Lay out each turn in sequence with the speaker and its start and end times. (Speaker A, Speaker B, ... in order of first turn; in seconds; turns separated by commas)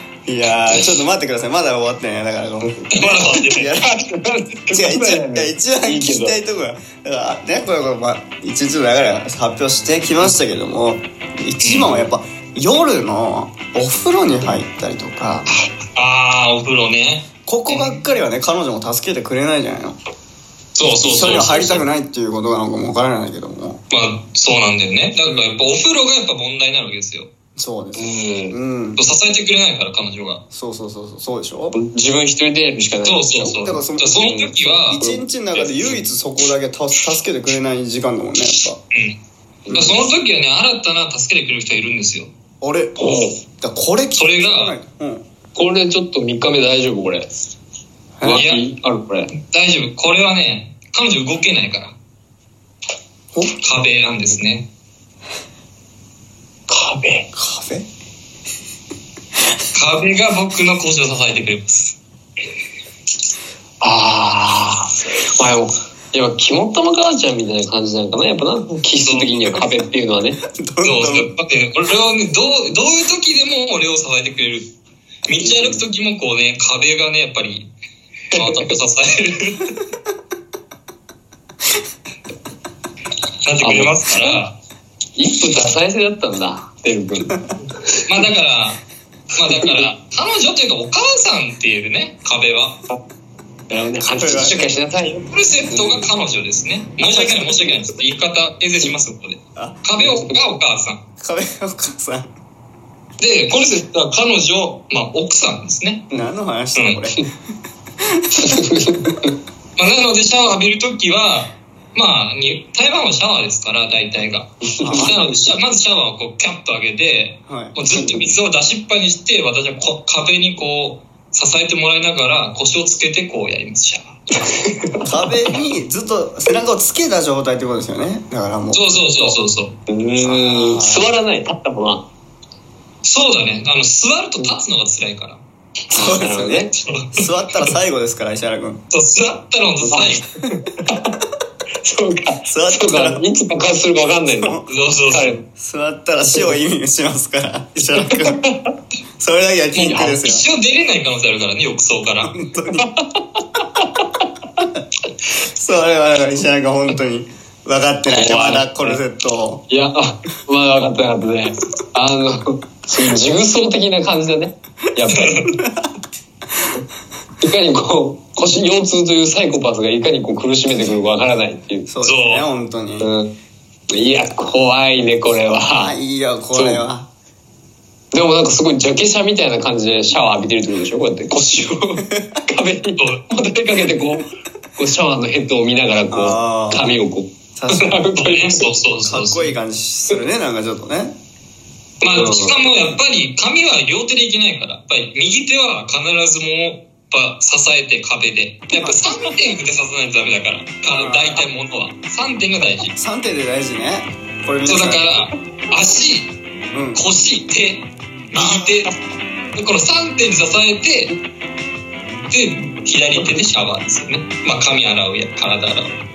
Speaker A: 0.2-4.0, Speaker B: 2.9-3.7, Speaker C: 3.9-6.4, Speaker A: 4.7-15.5, Speaker B: 11.6-12.1, Speaker B: 15.5-18.0, Speaker A: 17.4-20.0, Speaker B: 20.7-21.9, Speaker A: 20.8-23.8, Speaker B: 23.9-27.3, Speaker A: 27.6-29.0, Speaker C: 27.9-28.6, Speaker B: 29.0-30.4, Speaker A: 30.5-31.8, Speaker C: 31.7-33.3, Speaker B: 33.0-35.0, Speaker A: 33.4-38.8, Speaker C: 34.2-36.0, Speaker B: 35.5-35.9, Speaker C: 39.7-40.0, Speaker B: 39.7-42.3, Speaker A: 42.6-45.2, Speaker C: 43.0-43.4, Speaker B: 44.1-44.8, Speaker C: 45.5-47.3, Speaker A: 48.2-48.4, Speaker C: 48.2-49.3, Speaker B: 48.3-48.6, Speaker B: 49.5-52.0, Speaker A: 53.3-53.6, Speaker B: 53.6-54.7, Speaker C: 56.7-57.2, Speaker A: 57.3-57.9, Speaker B: 59.7-62.0, Speaker C: 63.8-70.4, Speaker B: 69.0-69.6, Speaker A: 70.6-71.3, Speaker B: 70.8-74.7, Speaker B: 75.2-77.7, Speaker C: 75.4-75.8, Speaker B: 78.3-79.8, Speaker C: 78.3-78.7, Speaker B: 83.4-84.5, Speaker C: 83.6-84.4, Speaker C: 85.2-87.3, Speaker B: 88.1-92.8, Speaker C: 89.5-89.8, Speaker C: 93.7-96.1, Speaker A: 93.7-94.8, Speaker B: 95.3-101.0, Speaker A: 97.0-97.7, Speaker A: 99.5-99.8, Speaker C: 100.0-100.3, Speaker A: 101.2-102.3, Speaker B: 103.2-106.1, Speaker A: 106.1-107.3, Speaker B: 106.7-107.0, Speaker C: 108.3-109.3, Speaker B: 109.8-124.2, Speaker C: 114.7-115.3, Speaker A: 114.8-115.2, Speaker A: 117.5-117.8, Speaker C: 117.9-118.2, Speaker C: 124.6-125.0, Speaker A: 125.0-129.4, Speaker B: 128.7-129.7, Speaker C: 129.9-132.0, Speaker A: 130.2-131.1, Speaker B: 133.0-135.4, Speaker C: 135.9-136.7, Speaker A: 135.9-138.8, Speaker B: 136.7-137.7, Speaker B: 138.9-140.3, Speaker C: 139.8-140.2, Speaker C: 140.8-141.1, Speaker C: 141.8-145.4, Speaker A: 142.4-143.2, Speaker A: 144.3-144.7, Speaker B: 144.7-145.4, Speaker A: 145.6-148.4, Speaker C: 148.0-148.6, Speaker A: 149.2-150.4, Speaker B: 149.7-152.3, Speaker A: 152.3-152.9, Speaker C: 153.6-154.0, Speaker A: 155.6-159.6, Speaker C: 158.1-159.0, Speaker C: 159.7-165.4, Speaker B: 165.2-165.5, Speaker A: 165.4-165.8, Speaker C: 167.4-171.9, Speaker A: 171.9-173.1, Speaker B: 172.0-172.4, Speaker C: 173.0-173.3, Speaker C: 173.9-175.9, Speaker A: 175.7-177.1, Speaker C: 176.5-176.8, Speaker C: 178.1-188.7, Speaker A: 186.1-186.9, Speaker A: 187.6-188.0, Speaker B: 188.2-189.6, Speaker A: 189.0-191.2, Speaker B: 192.0-202.9, Speaker C: 192.1-192.6, Speaker A: 200.9-201.5, Speaker A: 202.9-205.1, Speaker B: 204.7-206.3, Speaker A: 206.7-207.0, Speaker B: 206.9-208.9, Speaker A: 208.3-208.9, Speaker B: 209.5-211.1, Speaker B: 212.3-215.9